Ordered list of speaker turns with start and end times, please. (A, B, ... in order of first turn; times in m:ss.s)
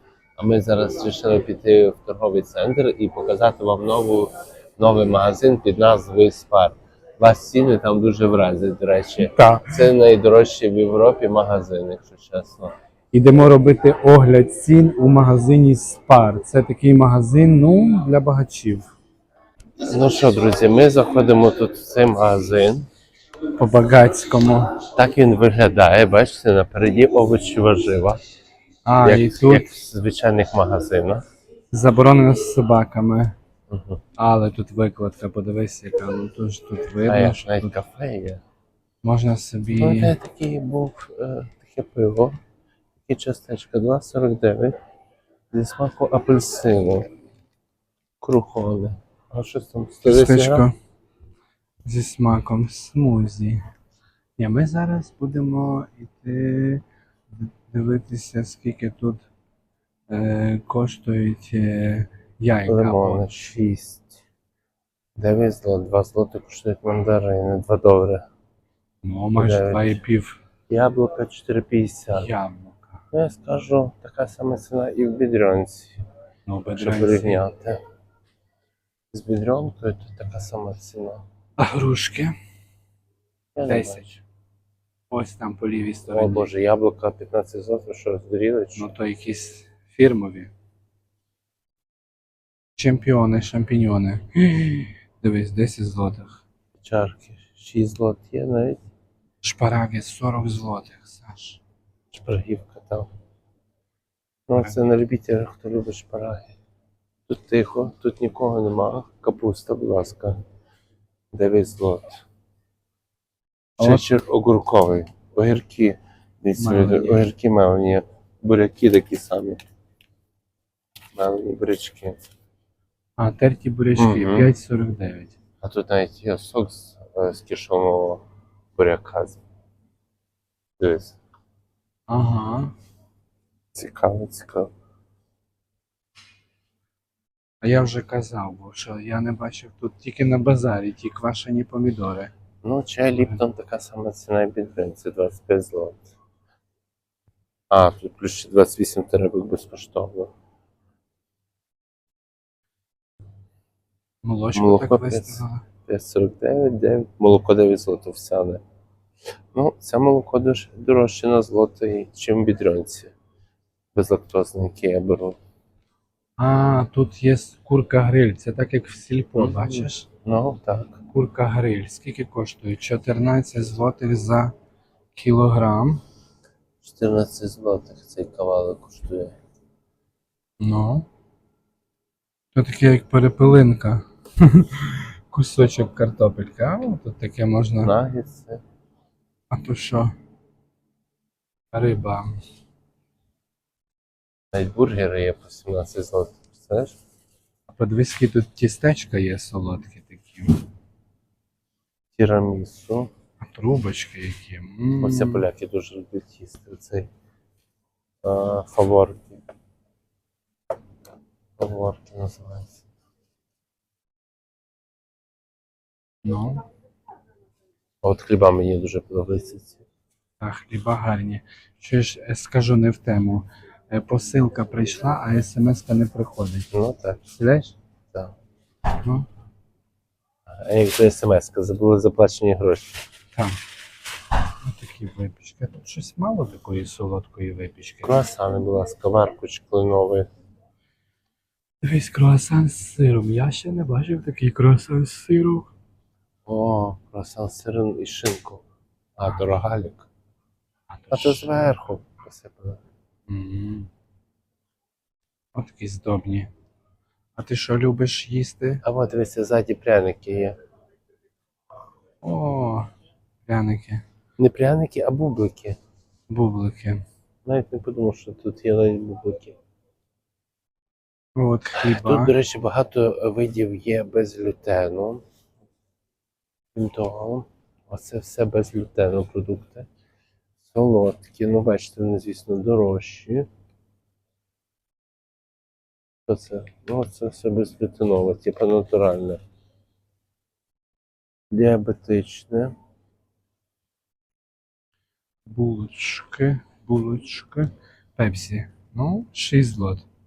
0:00.4-0:12.7 A
0:09.2-0:09.8 B
0:13.1-0:18.9 B
0:19.9-0:22.9 A
0:23.6-0:24.8 B
0:25.0-0:28.2 A
0:28.8-0:29.7 B
0:29.0-0:31.2 A
0:31.7-0:33.4 B
0:33.7-0:34.0 A
0:34.2-0:37.8 B
0:37.0-0:38.4 A
0:39.0-0:40.2 B
0:39.7-0:42.4 A
0:43.1-0:44.7 A
0:45.5-0:47.1 A
0:48.2-0:50.7 A
0:50.0-0:50.7 B
0:51.8-0:53.6 B
0:54.4-0:59.2 B
1:00.1-1:03.2 B
1:02.7-1:04.2 A
1:05.2-1:08.2 A
1:09.0-1:10.4 B
1:09.3-1:10.0 A
1:10.7-1:12.3 A
1:12.1-1:13.0 B
1:13.1-1:16.0 A
1:16.5-1:17.4 B
1:16.8-1:17.8 A
1:19.1-1:21.2 A
1:21.6-1:22.3 B
1:23.6-1:24.2 A
1:23.7-1:24.1 B
1:25.1-1:26.5 B
1:26.1-1:28.9 A
1:28.8-1:30.5 B
1:32.8-1:36.4 B
1:36.8-1:38.8 A
1:39.4-1:41.6 B
1:42.1-1:43.1 A
1:44.5-1:46.6 A
1:47.3-1:50.4 A
1:51.3-1:52.2 A
1:53.8-1:59.6 A
1:53.8-1:54.1 B
1:56.6-1:57.3 B
2:01.1-2:02.2 A
2:03.2-2:05.4 B
2:04.0-2:04.5 A
2:05.6-2:09.4 A
2:10.8-2:11.2 A
2:12.1-2:12.8 B
2:13.7-2:14.7 A
2:17.6-2:22.3 B
2:22.6-2:26.1 A
2:27.7-2:30.3 A
2:34.2-2:35.6 B
2:34.5-2:38.6 A
2:39.5-2:43.1 A
2:43.9-2:45.4 A
2:46.4-2:50.1 B
2:49.4-2:51.0 A
2:51.1-2:54.5 B
2:55.2-2:56.0 B
2:56.8-2:59.4 A
3:00.6-3:01.1 B
3:02.5-3:07.9 B
3:07.8-3:08.6 A
3:09.5-3:10.1 B
3:11.7-3:12.4 B
3:14.5-3:17.0 A
3:17.7-3:20.6 B
3:22.2-3:23.1 A
3:23.4-3:25.5 B
3:25.0-3:27.1 A
3:28.2-3:29.4 A
3:31.6-3:32.8 A
3:36.2-3:36.6 B
3:38.0-3:39.8 A
3:40.4-3:46.7 B
3:46.7-3:47.3 A
3:47.3-3:47.8 B
3:49.0-3:49.3 B
3:50.5-3:53.0 A
3:53.3-3:53.6 B
3:54.6-3:58.2 B
3:58.0-4:00.3 A
4:01.8-4:05.7 B
4:06.5-4:08.6 A
4:09.2-4:10.1 A
4:09.2-4:09.5 B
4:10.9-4:11.7 B
4:11.1-4:12.8 A
4:13.3-4:13.9 B
4:15.5-4:16.5 B
4:17.4-4:18.8 B
4:18.8-4:20.6 A
4:22.2-4:22.9 B
4:23.4-4:24.0 B
4:24.4-4:25.8 A
4:26.3-4:27.0 B
4:27.4-4:29.6 A
4:31.4-4:32.3 B
4:31.8-4:35.2 A
4:36.8-4:39.9 A
4:40.6-4:43.5 A
4:46.3-4:49.4 A
4:51.5-4:52.8 A
4:55.4-5:00.0 B